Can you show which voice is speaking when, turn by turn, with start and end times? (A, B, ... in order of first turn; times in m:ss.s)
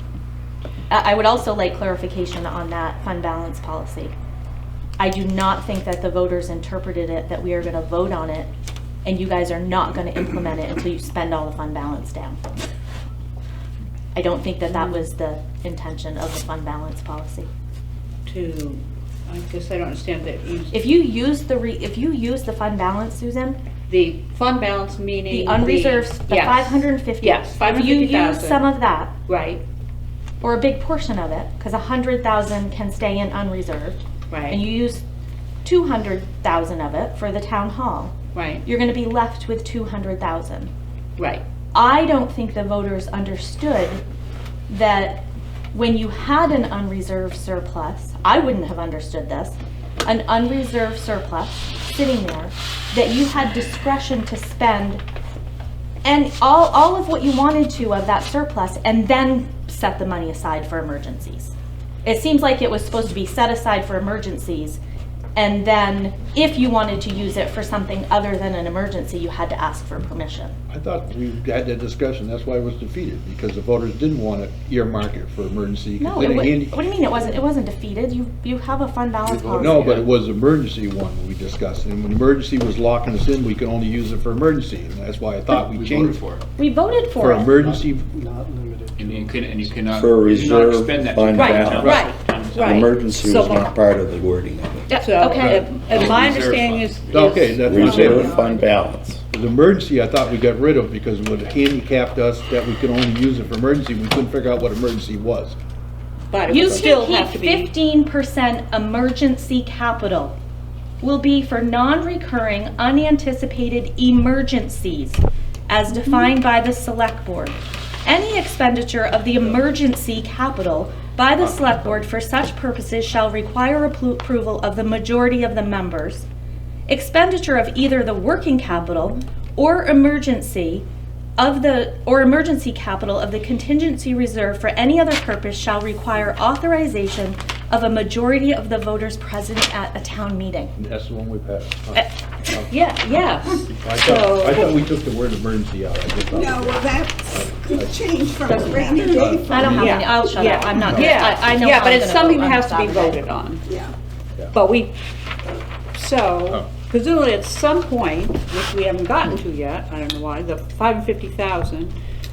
0:00.9-0:04.1 A
0:05.0-0:08.5 A
0:09.0-0:12.4 A
0:14.1-0:17.5 A
0:14.7-0:15.0 B
0:18.3-0:20.8 B
0:20.7-0:23.6 A
0:23.9-0:28.7 B
0:25.3-0:29.1 A
0:29.3-0:29.6 B
0:30.4-0:34.0 A
0:34.3-0:34.6 B
0:34.5-0:35.0 A
0:35.6-0:40.7 A
0:38.3-0:38.6 B
0:41.2-0:41.4 B
0:41.7-0:44.0 A
0:44.7-0:55.0 A
0:56.0-1:01.5 A
1:02.0-1:04.8 A
1:05.4-1:10.6 A
1:10.7-1:16.8 C
1:16.0-1:20.0 A
1:19.5-1:26.2 C
1:25.5-1:26.4 D
1:26.6-1:27.5 A
1:27.2-1:28.1 C
1:27.6-1:29.9 E
1:29.0-1:32.7 D
1:29.9-1:32.0 F
1:31.4-1:33.7 B
1:32.5-1:34.9 F
1:34.9-1:35.6 A
1:34.9-1:38.6 B
1:35.4-1:35.6 C
1:35.8-1:37.4 D
1:37.1-1:38.4 C
1:37.6-1:39.2 F
1:39.3-1:45.6 C
1:46.3-1:47.7 B
1:46.5-1:50.4 A
1:51.0-2:06.3 A
2:06.9-2:10.8 A
2:11.4-2:20.7 A
2:20.8-2:22.8 C
2:22.7-2:24.8 B
2:23.7-2:30.0 C
2:26.3-2:30.2 G
2:29.4-2:33.2 A
2:29.6-2:33.6 B
2:33.7-2:33.9 G
2:34.5-2:34.9 B
2:36.0-2:41.9 B